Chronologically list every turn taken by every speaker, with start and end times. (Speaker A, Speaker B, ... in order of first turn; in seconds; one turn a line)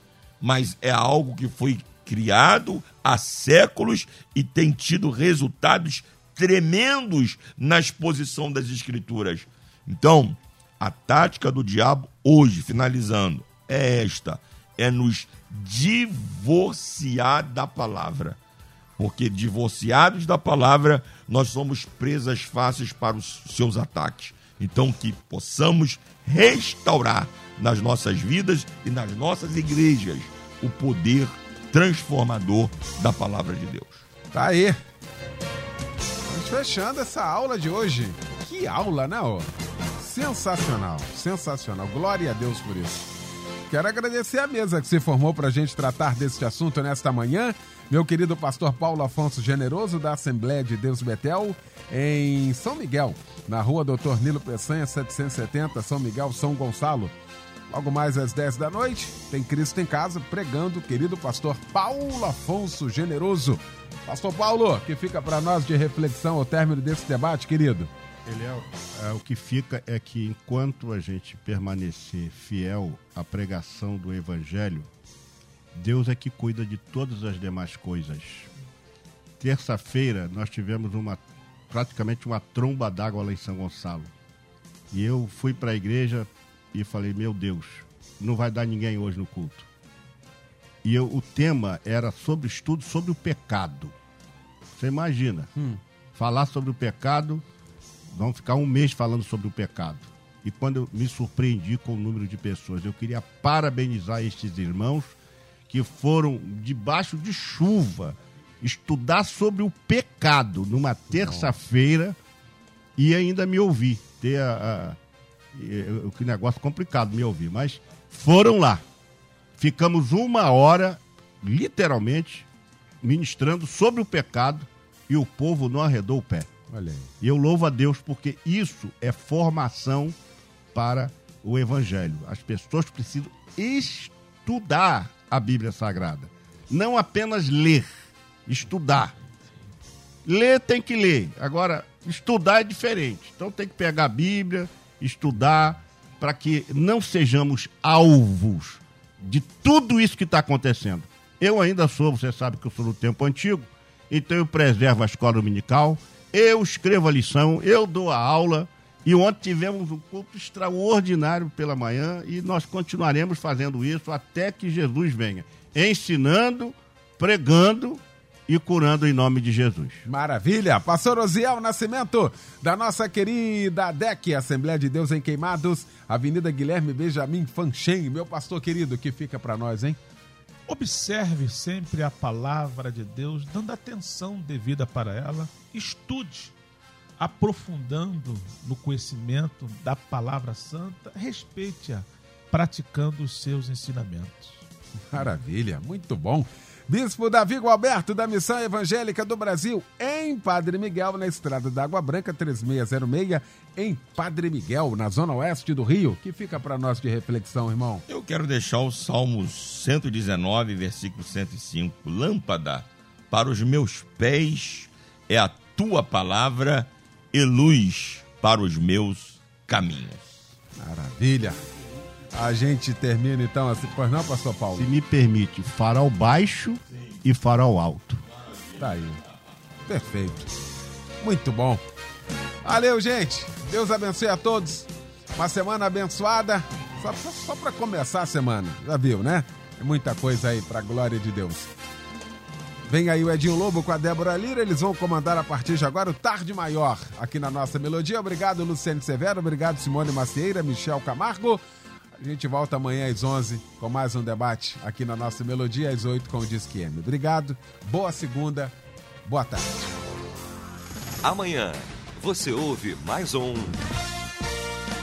Speaker A: 0.4-18.4
Speaker A: 19.0-34.0
Speaker B: 34.3-34.8
Speaker B: 36.3-43.1
Speaker B: 43.7-57.1
Speaker B: 57.7-67.9
Speaker C: 68.3-74.9
Speaker C: 75.7-78.5
Speaker C: 79.4-84.1
Speaker C: 84.9-89.7
Speaker C: 90.8-94.0
Speaker C: 94.7-95.5
Speaker C: 96.1-97.4
Speaker C: 98.1-105.1
Speaker C: 105.7-112.2
Speaker B: 111.1-111.5
Speaker C: 113.0-115.0
Speaker C: 115.5-118.8
Speaker C: 119.6-122.5
Speaker C: 123.0-126.5
Speaker B: 126.7-127.1
Speaker C: 127.2-130.1
Speaker C: 130.7-137.9
Speaker C: 138.5-139.1
Speaker C: 140.2-170.1
Speaker B: 170.1-180.0
Speaker D: 180.7-186.5
Speaker D: 187.2-194.6
Speaker B: 195.1-208.0
Speaker A: 208.1-220.3
Speaker B: 220.8-221.6
Speaker B: 222.3-224.9
Speaker C: 224.7-228.2
Speaker B: 228.8-229.2
Speaker B: 229.9-230.5
Speaker B: 231.2-231.8
Speaker B: 232.6-241.7
Speaker B: 242.9-251.6
Speaker B: 252.2-259.9
Speaker E: 261.2-263.8